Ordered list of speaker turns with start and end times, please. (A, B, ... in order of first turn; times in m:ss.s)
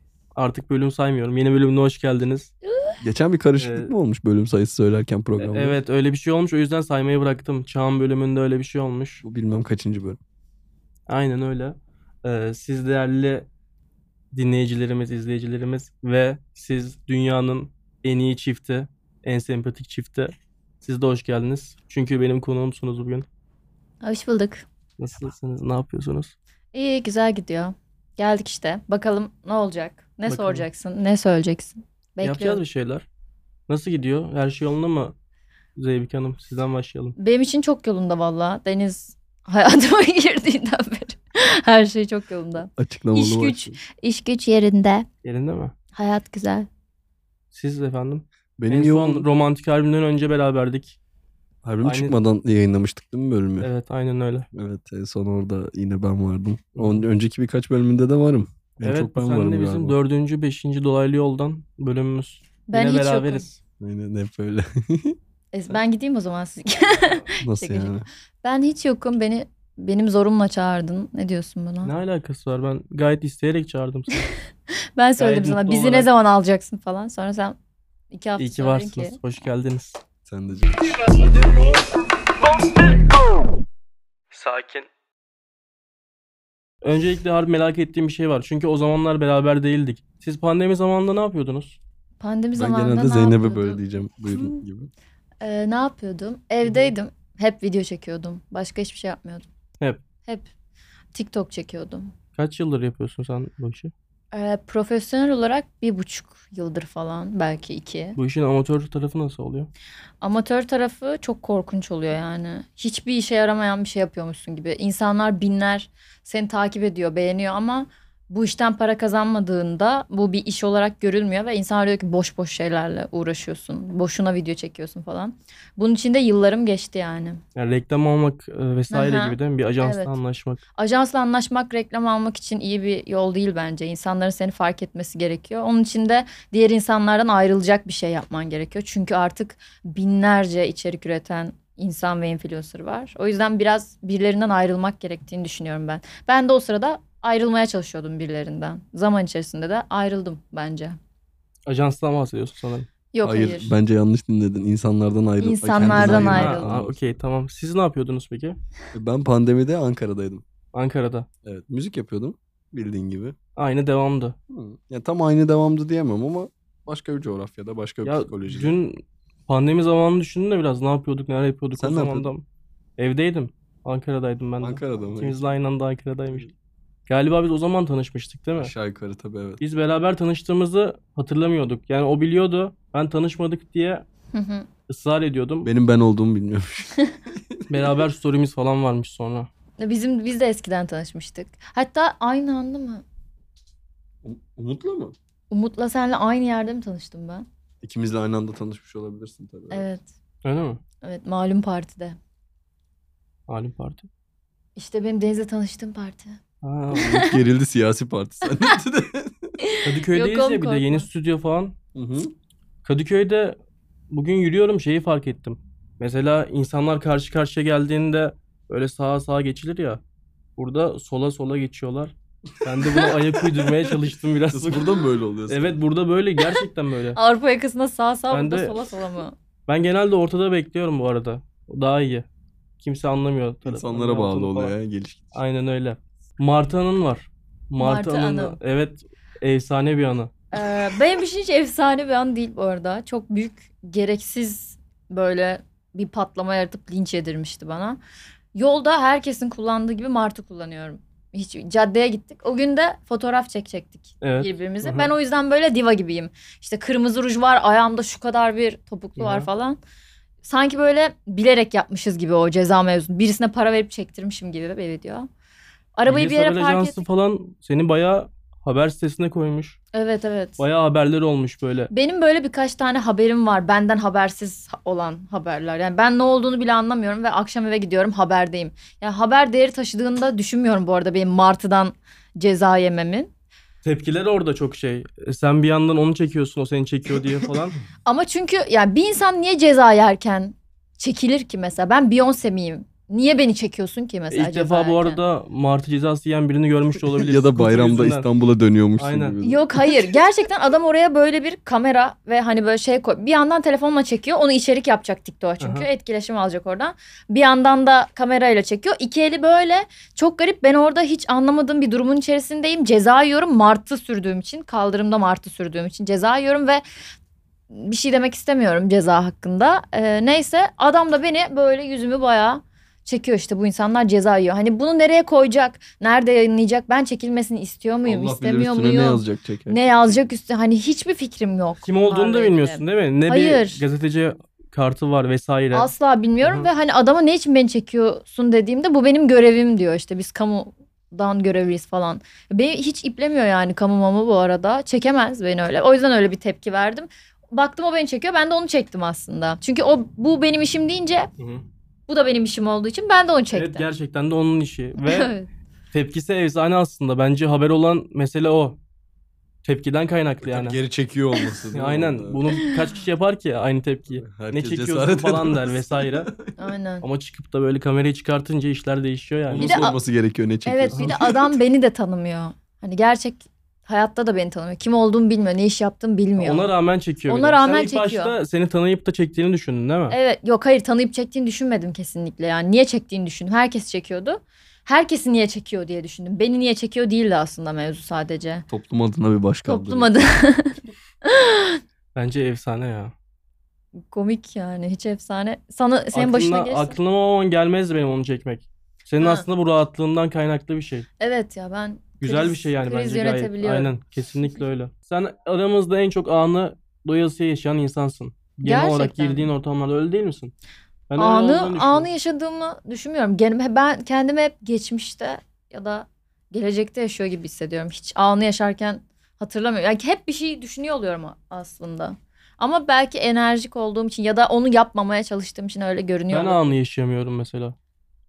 0:00.4-0:02.5 A
0:02.7-0:03.0 B
0:03.0-0:05.8 C
0:03.6-0:03.9 A
0:05.4-0:09.2 A
0:09.2-0:10.2 C
0:11.1-0:13.5 A
0:14.3-0:23.3 A
0:24.0-0:24.6 B
0:25.0-0:26.3 A
0:26.7-0:32.6 B
0:30.3-0:30.7 A
0:32.2-0:33.1 A
0:33.7-0:35.2 A
0:35.8-0:37.2 A
0:37.2-0:45.1 B
0:42.8-0:43.8 C
0:45.2-0:45.7 A
0:46.0-0:46.7 B
0:47.5-0:51.0 A
0:48.6-0:49.2 C
0:51.6-0:53.7 C
0:51.8-0:52.2 A
0:53.6-0:54.5 A
0:54.5-1:00.0 C
0:56.8-0:57.0 A
0:58.8-1:03.6 A
1:02.7-1:03.5 B
1:03.8-1:05.2 C
1:05.5-1:11.9 B
1:07.4-1:08.1 C
1:11.8-1:14.2 A
1:15.0-1:17.6 B
1:15.2-1:16.1 A
1:18.1-1:19.2 B
1:18.4-1:20.0 A
1:20.3-1:20.9 C
1:24.3-1:24.9 A
1:26.8-1:31.8 A
1:32.2-1:34.6 B
1:32.6-1:34.9 C
1:35.4-1:39.5 B
1:36.6-1:36.9 A
1:41.1-1:42.1 B
1:42.4-1:43.9 A
1:44.3-1:48.2 B
1:48.2-1:49.7 A
1:50.2-2:07.4 B
2:07.6-2:10.6 A
2:08.9-2:10.2 B
2:10.8-2:31.0 B
2:31.7-2:32.9 A
2:33.1-2:33.8 B
2:33.2-2:37.0 C
2:35.4-2:36.7 B
2:35.8-2:38.6 A
2:38.9-2:40.4 C
2:40.7-2:41.3 A
2:41.4-2:43.4 C
2:43.6-2:44.4 A
2:44.5-2:48.8 C
2:48.0-2:52.4 A
2:51.8-2:52.3 C
2:53.0-2:56.5 A
2:54.6-2:55.5 C
2:57.1-2:58.7 A
2:58.6-2:59.6 C
2:59.6-3:04.0 A
3:04.3-3:04.7 B
3:04.9-3:05.7 A
3:05.6-3:08.0 C
3:07.7-3:09.5 A
3:09.8-3:13.0 B
3:14.2-3:15.2 C
3:15.5-3:17.5 B
3:17.8-3:19.9 C
3:19.7-3:20.1 B
3:20.4-3:20.8 A
3:21.0-3:22.2 B
3:23.5-3:24.1 A
3:24.8-3:26.4 B
3:26.6-3:27.2 A
3:26.9-3:29.6 C
3:27.0-3:27.4 B
3:28.5-3:28.8 B
3:29.6-3:31.1 B
3:29.8-3:31.8 A
3:32.0-3:32.3 C
3:32.8-3:33.6 A
3:34.1-3:40.0 A
3:40.6-3:44.9 A
3:42.8-3:43.7 C
3:44.5-3:45.8 C
3:45.5-3:47.2 A
3:47.2-3:49.4 B
3:48.3-3:48.8 A
3:49.7-3:52.3 A
3:52.8-3:54.8 A
3:53.7-3:55.3 C
3:55.3-4:00.3 A
3:57.8-3:58.6 B
4:00.5-4:08.0 B
4:08.6-4:19.8 B
4:14.2-4:15.1 A
4:19.2-4:19.5 A
4:20.4-4:25.3 B
4:26.0-4:27.0 B
4:26.1-4:29.8 A
4:29.9-4:30.6 B
4:30.6-4:31.9 A
4:31.9-4:43.3 B
4:43.8-4:47.8 A
4:48.1-4:55.2 B
4:54.3-4:58.3 A
4:57.1-5:00.0 C
4:59.0-4:59.4 A
4:59.4-5:16.8 B
5:05.6-5:05.9 A
5:17.7-5:33.8 B
5:28.0-5:30.3 C
5:31.8-5:35.9 A
5:35.7-5:51.3 B
5:36.4-5:36.7 A
5:51.4-5:51.6 A
5:52.1-5:53.9 B
5:53.5-5:55.3 A
5:55.0-5:55.5 B
5:55.9-5:58.8 A
5:59.6-6:00.8 A
6:00.4-6:02.4 C
6:01.8-6:06.3 A
6:04.2-6:06.6 C
6:06.6-6:07.0 B
6:07.0-6:09.8 A
6:09.5-6:11.6 C
6:09.6-6:10.0 B
6:10.6-6:16.7 B
6:10.9-6:11.2 A
6:16.4-6:20.2 A
6:17.3-6:18.4 B
6:20.1-6:28.7 B
6:28.7-6:30.1 C
6:29.7-6:31.8 B
6:32.2-6:33.1 A
6:34.1-6:37.0 B
6:36.1-6:41.1 A
6:39.2-6:39.4 B
6:41.2-6:43.9 B
6:42.2-6:50.5 A
6:48.6-6:49.5 B
6:51.1-6:52.1 A
6:51.2-7:06.6 B
7:06.3-7:07.8 A